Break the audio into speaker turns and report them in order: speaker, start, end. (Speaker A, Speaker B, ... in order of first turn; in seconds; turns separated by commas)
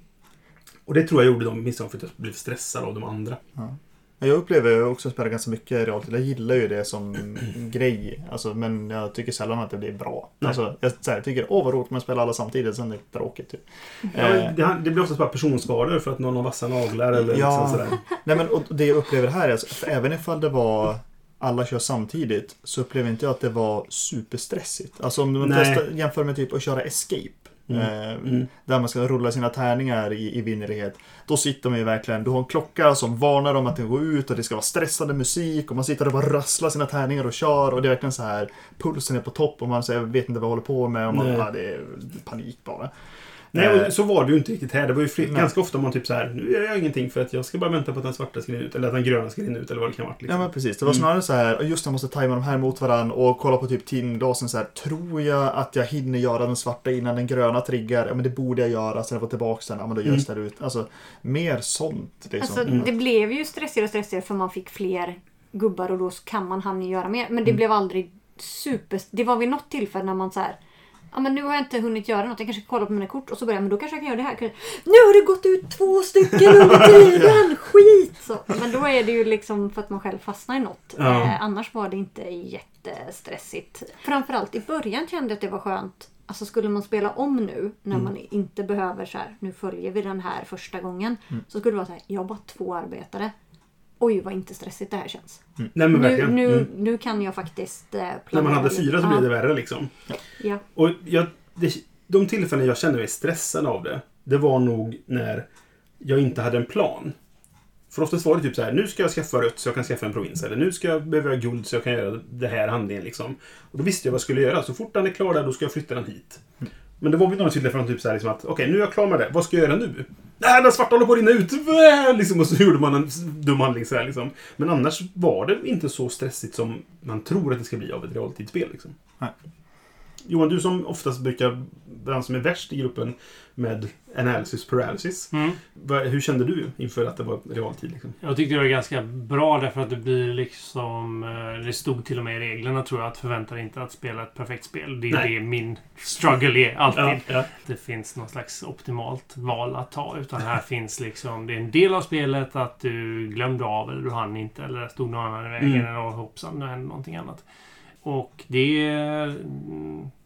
Speaker A: 0.9-3.4, Speaker B: 3.6-14.5, Speaker A: 14.1-18.1, Speaker B: 17.1-42.9, Speaker A: 25.4-25.8, Speaker A: 27.7-28.5, Speaker A: 41.1-41.5, Speaker B: 43.5-43.9, Speaker A: 43.5-51.0, Speaker B: 50.3-62.9, Speaker C: 62.4-70.6, Speaker C: 71.1-93.3, Speaker A: 81.0-81.3, Speaker C: 94.0-99.3, Speaker A: 95.7-96.7, Speaker A: 98.3-100.0, Speaker A: 100.7-105.5, Speaker A: 106.0-107.2, Speaker A: 107.9-116.4, Speaker A: 117.0-128.9, Speaker A: 130.2-138.2, Speaker D: 135.3-135.6, Speaker D: 138.2-157.5, Speaker A: 146.9-147.5, Speaker A: 155.6-155.9, Speaker D: 158.0-160.1